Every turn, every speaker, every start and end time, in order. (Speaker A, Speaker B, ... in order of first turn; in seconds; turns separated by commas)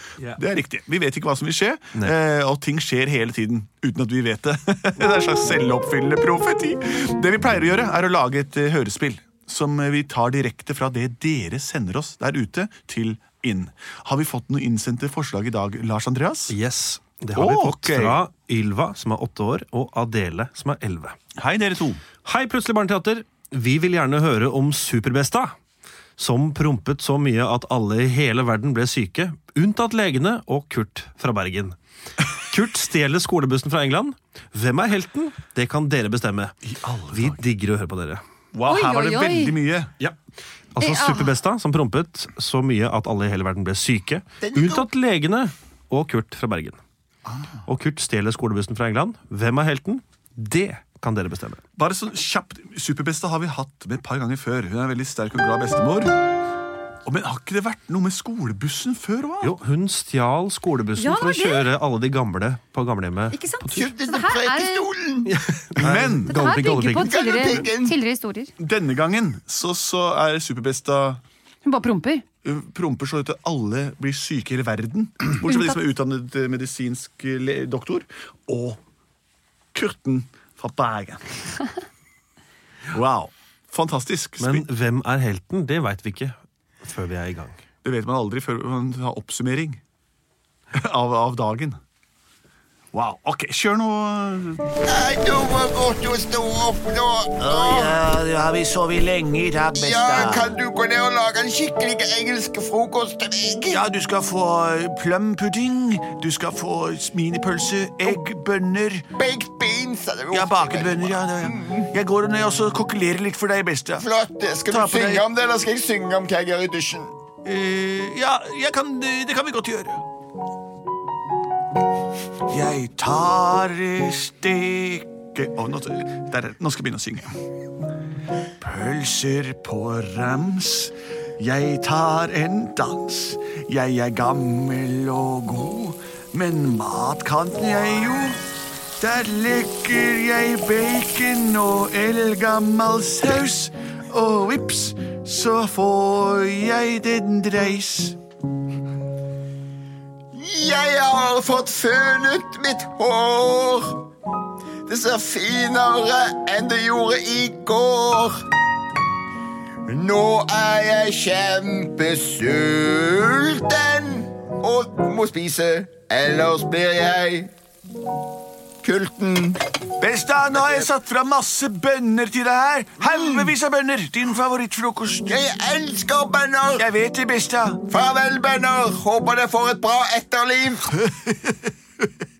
Speaker A: 0.3-16.6, Speaker B: 16.5-21.2, Speaker A: 17.4-18.2, Speaker A: 21.4-22.0, Speaker B: 22.2-25.5, Speaker B: 26.2-31.8, Speaker B: 32.3-36.5, Speaker A: 36.6-37.4, Speaker B: 37.1-38.2, Speaker A: 38.5-40.0, Speaker C: 38.7-39.5, Speaker B: 40.8-46.8, Speaker C: 40.8-41.3, Speaker D: 44.4-44.9, Speaker B: 47.7-51.6, Speaker A: 51.8-56.1, Speaker A: 57.0-59.6, Speaker B: 59.4-63.9, Speaker C: 61.0-61.6, Speaker C: 63.3-64.9, Speaker D: 63.7-65.4, Speaker B: 65.3-67.5, Speaker A: 65.8-66.4, Speaker C: 66.3-68.5, Speaker D: 66.9-68.0, Speaker A: 68.6-71.2, Speaker C: 71.7-72.2, Speaker A: 72.4-78.8, Speaker C: 75.5-75.8, Speaker A: 79.7-81.5, Speaker A: 82.9-84.7, Speaker B: 84.4-87.6, Speaker A: 87.8-89.8, Speaker A: 90.7-91.8, Speaker A: 92.9-94.7, Speaker D: 94.8-98.0, Speaker A: 97.4-100.5, Speaker D: 99.7-103.8, Speaker A: 103.7-109.1, Speaker D: 109.2-111.9, Speaker A: 110.3-114.0, Speaker D: 114.0-117.1, Speaker A: 114.7-115.2, Speaker A: 117.4-120.0, Speaker A: 122.5-127.4, Speaker A: 128.6-138.4, Speaker A: 139.0-148.2, Speaker D: 150.3-154.1, Speaker D: 154.9-158.4, Speaker D: 159.9-167.5, Speaker D: 168.8-169.6, Speaker A: 170.0-175.4, Speaker D: 173.0-173.5, Speaker D: 175.3-176.9, Speaker A: 176.8-177.8, Speaker D: 177.9-180.9, Speaker A: 180.9-182.1